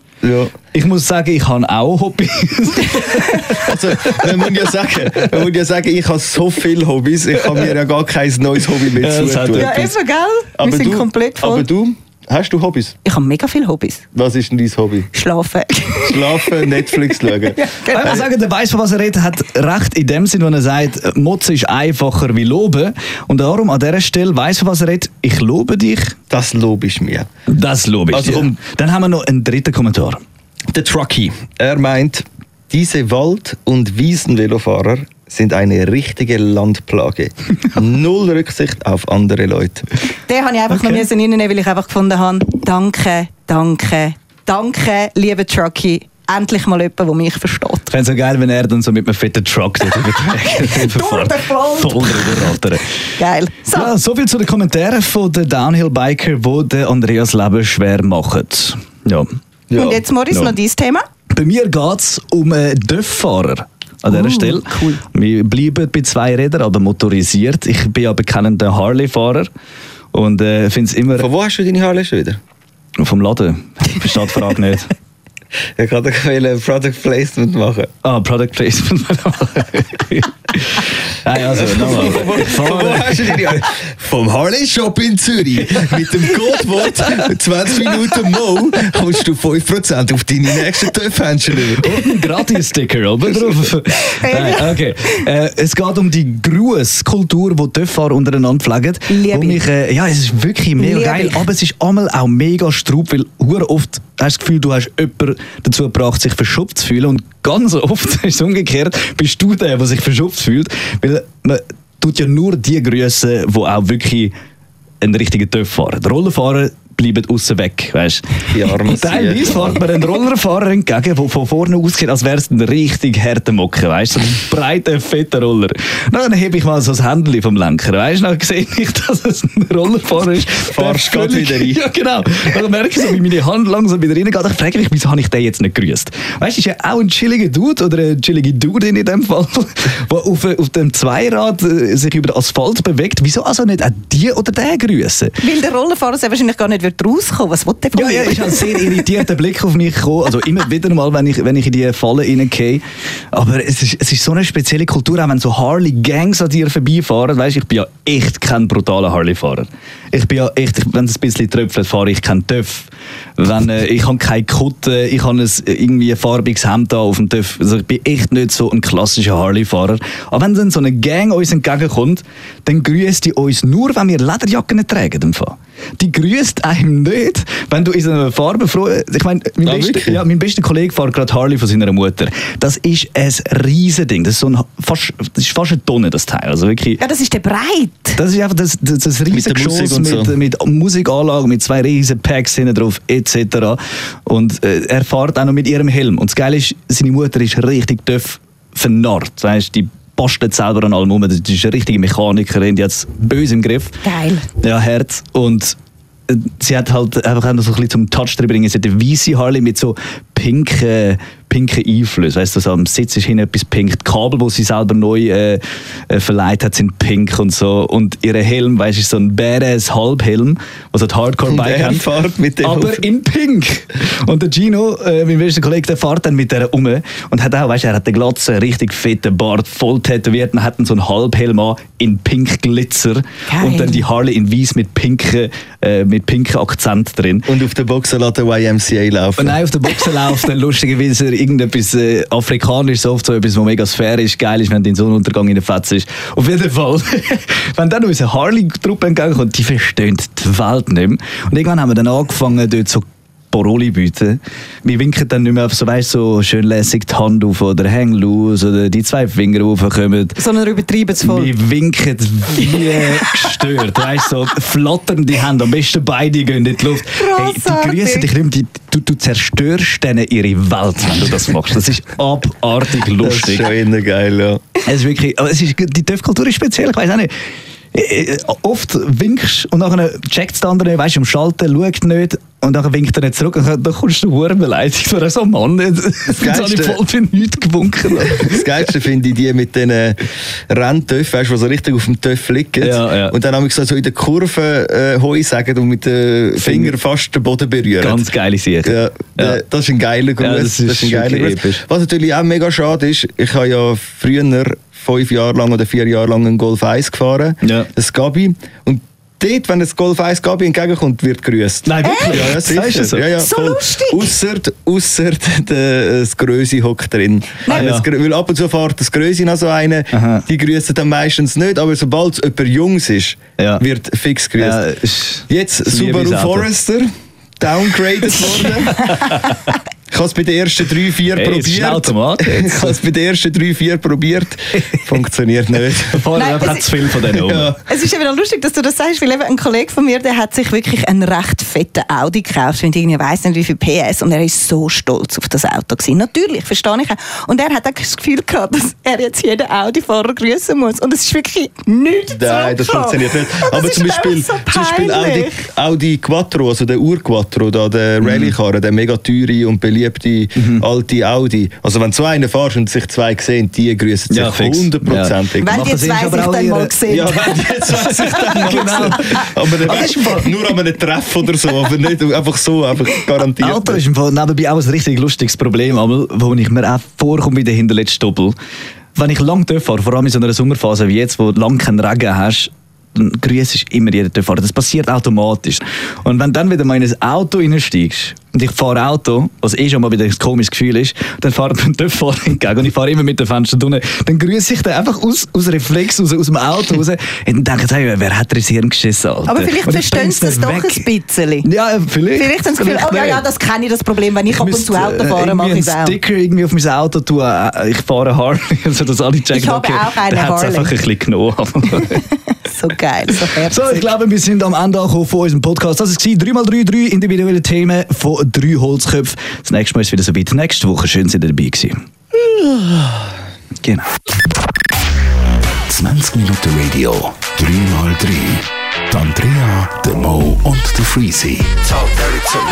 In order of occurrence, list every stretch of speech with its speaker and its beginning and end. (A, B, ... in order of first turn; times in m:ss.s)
0:00.2-0:00.5 A
0:00.7-0:05.4 B
0:03.0-0:03.4 C
0:03.6-0:09.9 A
0:08.8-0:09.9 B
0:09.5-0:11.7 C
0:10.6-0:13.0 A
0:13.0-0:14.0 C
0:14.1-0:15.1 A
0:15.1-0:18.2 C
0:16.0-0:18.2 A
0:17.9-0:26.1 B
0:26.3-0:27.3 A
0:27.5-0:30.2 B
0:28.1-0:28.5 A
0:30.7-0:39.8 A
0:40.3-0:47.9 C
0:40.7-0:41.0 B
0:47.9-0:52.8 B
0:50.3-0:52.5 C
0:53.2-0:53.9 C
0:53.7-0:59.3 B
0:59.7-1:00.0 A
0:59.8-1:01.0 C
1:00.3-1:00.5 B
1:01.3-1:09.5 B
1:04.1-1:05.0 C
1:10.1-1:11.3 B
1:11.2-1:12.4 A
1:13.0-1:14.9 B
1:15.8-1:17.9 A
1:18.0-1:23.6 B
1:21.5-1:32.0 A
1:25.6-1:27.1 B
1:31.8-1:54.3 B
1:34.1-1:35.0 C
1:39.1-1:39.6 C
1:40.8-1:41.4 C
1:55.0-2:25.4 B
1:58.5-1:59.8 A
2:10.7-2:11.8 A
2:25.4-2:29.1 C
2:27.9-2:32.8 B
2:33.3-3:07.0 B
2:59.6-3:00.2 A
3:07.0-3:08.2 C
3:08.2-3:24.0 B
3:09.3-3:10.3 A
3:24.0-3:24.5 C
3:24.6-3:25.8 B
3:26.3-3:42.1 B
3:41.5-3:43.1 A
3:42.6-3:57.5 B
3:53.5-3:54.0 C
3:57.5-3:59.6 A
3:59.4-4:20.4 B
4:20.4-4:21.5 C
4:21.2-4:33.7 B
4:27.1-4:28.3 C
4:33.2-4:34.6 A
4:34.8-4:37.3 B
4:37.9-4:48.9 B
4:46.4-4:47.0 A
4:48.2-4:58.3 A
4:52.8-4:53.3 B
4:56.6-4:56.9 B
4:58.0-4:59.6 B
4:58.8-5:24.8 A
5:00.4-5:01.8 B
5:07.6-5:07.9 B
5:11.8-5:13.3 B
5:12.0-5:12.5 C
5:13.3-5:14.3 C
5:17.6-5:17.9 C
5:17.7-5:18.0 B
5:20.1-5:20.4 B
5:23.6-5:23.8 B
5:24.6-5:26.7 B
5:25.5-5:29.2 A
5:28.4-5:29.7 B
5:30.1-5:36.2 A
5:31.3-5:33.0 B
5:36.1-5:37.8 B
5:36.4-5:37.0 C
5:37.3-5:37.8 A
5:37.8-5:55.6 C
5:52.3-6:05.8 A
5:58.2-5:58.5 B
6:00.6-6:00.8 B
6:04.3-6:07.0 B
6:05.6-6:07.6 C
6:07.1-6:14.0 A
6:07.6-6:10.5 B
6:08.2-6:09.4 C
6:13.6-6:18.5 B
6:19.1-6:41.1 B
6:39.5-6:41.7 C
6:41.6-6:43.4 B
6:42.4-6:46.2 C
6:44.5-6:52.2 B
6:49.5-6:50.9 C
6:52.6-6:54.1 C
6:53.3-7:01.9 B
7:05.9-7:11.9 D